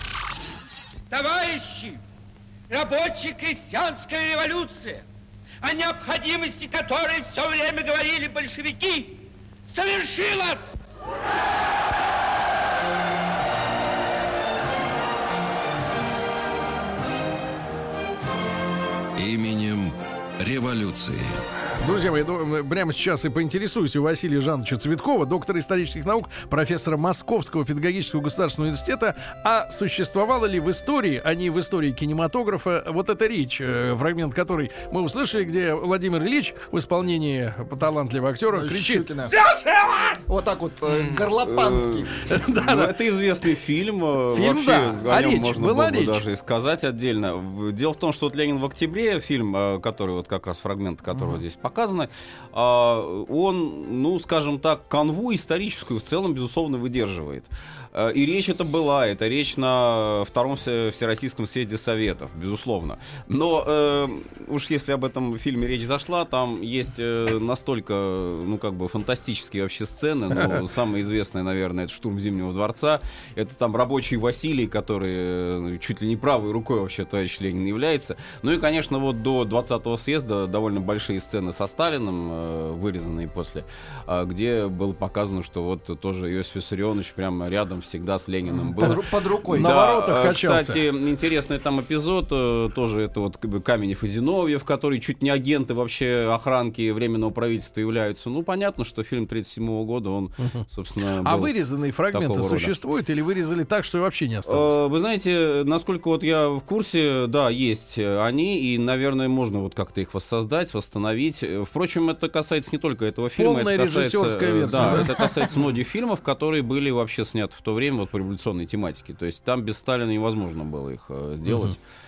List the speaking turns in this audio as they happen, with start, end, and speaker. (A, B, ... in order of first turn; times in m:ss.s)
0:01.1-0:02.0 A
0:02.7-0:05.0 A
0:05.6-0:09.2 A
0:09.7-0:10.6 A
0:19.2-0:21.4 B
0:21.8-0:40.2 C
0:38.5-0:39.3 D
0:40.3-0:42.2 D
0:41.4-1:41.5 E
0:42.3-0:42.9 C
0:44.3-0:46.2 C
1:28.5-1:29.8 D
1:29.5-1:30.8 C
1:41.2-1:44.8 C
1:42.1-1:42.8 E
1:44.4-2:01.8 E
1:53.4-1:55.3 C